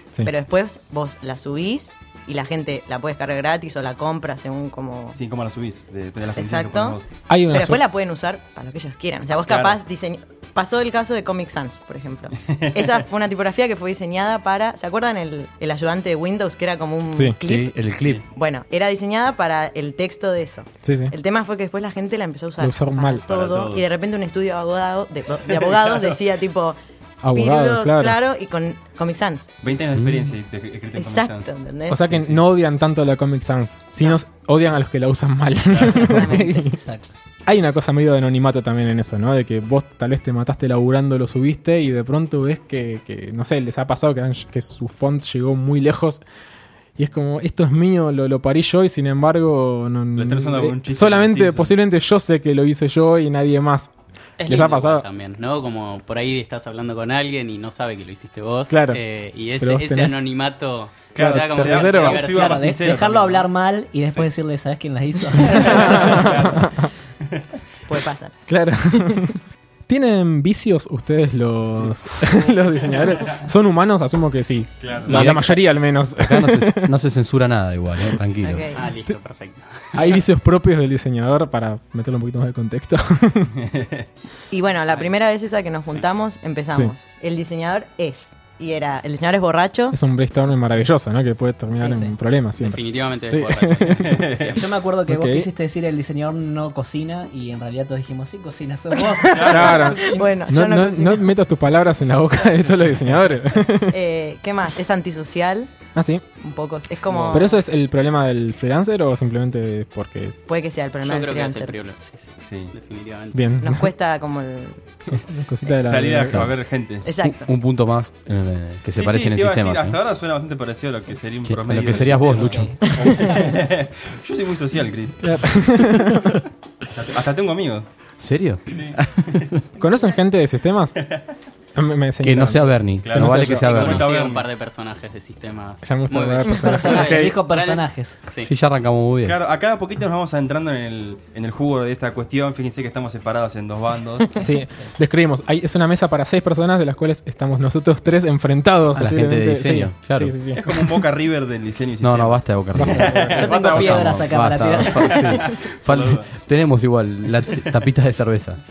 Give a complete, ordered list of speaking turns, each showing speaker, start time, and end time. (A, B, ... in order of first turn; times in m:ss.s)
0:00.2-0:05.2 A
0:05.1-0:07.1 B
0:06.3-0:07.0 A
0:07.3-0:07.8 C
0:07.5-0:26.8 A
0:09.4-0:09.8 B
0:17.4-0:18.2 D
0:20.8-0:21.1 C
0:22.6-0:23.2 C
0:23.3-0:23.8 B
0:25.5-0:26.1 B
0:27.2-0:28.2 C
0:27.3-0:29.5 A
0:29.6-0:31.4 B
0:30.0-0:30.3 D
0:31.0-0:32.0 A
0:31.9-0:36.8 C
0:35.8-0:36.6 A
0:36.5-0:37.1 E
0:37.4-0:46.2 C
0:47.0-0:55.0 C
0:50.2-0:51.7 B
0:54.4-1:02.7 F
0:58.7-0:59.0 C
0:59.6-1:00.2 C
1:01.1-1:03.4 B
1:01.2-1:02.2 C
1:02.3-1:06.1 E
1:05.5-1:06.6 B
1:05.5-1:06.8 C
1:07.9-1:08.4 A
1:08.5-1:16.9 C
1:14.8-1:15.3 B
1:15.1-1:15.6 D
1:16.2-1:18.7 D
1:18.4-1:18.8 A
1:18.7-1:20.2 F
1:19.9-1:23.5 C
1:23.7-1:24.0 B
1:24.5-1:30.0 A
1:29.9-1:34.2 C
1:31.8-1:32.1 E
1:32.6-1:34.6 F
1:34.0-1:34.6 B
1:34.4-1:40.3 E
1:35.1-1:35.5 C
1:39.0-1:41.3 A
1:39.3-1:39.9 B
1:39.4-1:43.9 C
1:43.9-1:45.7 A
1:45.9-1:46.2 C
1:46.4-1:47.6 A
1:47.1-1:47.4 B
1:47.3-1:50.4 C
1:50.5-1:51.7 A
1:51.0-1:53.4 F
1:52.5-1:52.7 B
1:53.3-1:53.9 C
1:53.6-1:54.9 A
1:55.1-1:56.5 C
1:55.8-1:57.0 B
1:56.3-1:56.6 D
1:57.0-1:57.5 A
1:57.2-2:00.0 D
1:58.9-2:05.7 B
2:01.5-2:02.8 D
2:02.3-2:03.5 E
2:02.8-2:03.4 A
2:05.2-2:06.4 C
2:06.9-2:07.8 B
2:08.2-2:09.6 D
2:08.7-2:09.4 B
2:09.8-2:11.1 C
2:11.7-2:13.6 C
2:12.2-2:14.1 D
2:13.0-2:14.5 B
2:13.6-2:18.5 F
2:15.8-2:17.4 C
2:16.5-2:18.2 E
2:18.4-2:19.4 D
2:19.2-2:24.3 B
2:24.4-2:30.8 C
2:29.0-2:30.5 D
2:30.5-2:34.2 B
2:32.0-2:38.6 D
2:32.7-2:33.4 C
2:32.8-2:35.4 E
2:35.0-2:36.4 B